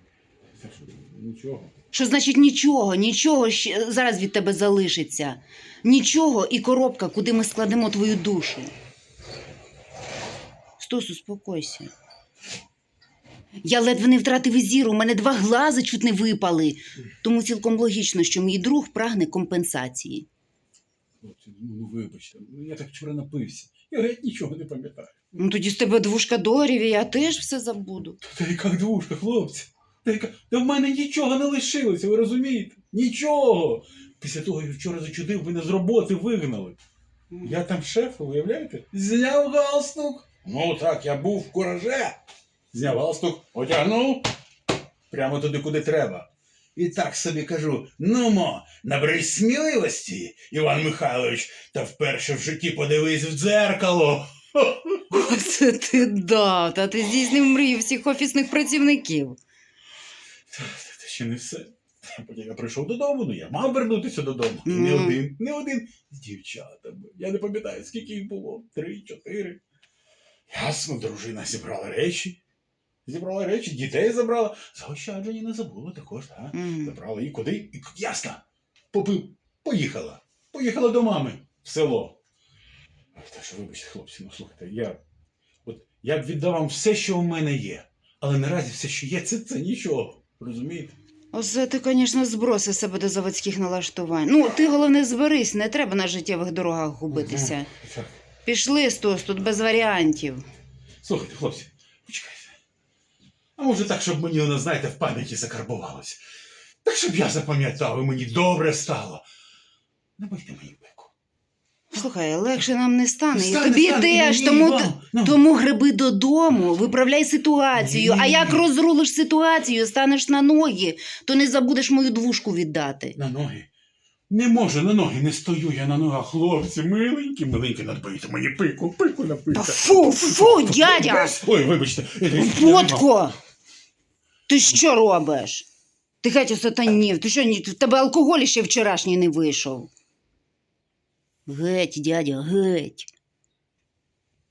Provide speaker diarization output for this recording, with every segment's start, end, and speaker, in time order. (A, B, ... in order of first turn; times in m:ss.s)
0:00.6-0:01.7 A
0:01.9-0:08.7 B
0:10.8-0:11.9 B
0:13.6-0:20.3 B
0:21.2-0:25.1 A
0:25.3-0:28.2 B
0:28.2-0:36.8 A
0:37.4-0:42.2 A
0:42.7-0:44.3 A
0:45.1-0:55.1 A
0:55.1-0:59.4 B
1:00.5-1:09.6 A
1:04.6-1:05.2 B
1:10.5-1:12.4 A
1:13.0-1:22.2 A
1:16.5-1:17.0 B
1:23.1-1:25.0 A
1:25.6-1:30.9 A
1:31.3-1:37.7 B
1:37.1-1:38.2 A
1:38.4-1:40.4 B
1:41.0-1:42.6 A
1:43.6-1:46.2 A
1:46.8-1:49.2 A
1:50.2-1:51.1 A
1:51.9-2:03.2 B
1:53.3-1:55.4 A
1:57.7-1:58.6 A
2:03.2-2:03.7 A
2:04.3-2:13.1 A
2:09.5-2:11.4 B
2:12.3-2:13.3 B
2:14.5-2:15.6 B
2:16.2-2:19.9 B
2:21.4-2:23.1 B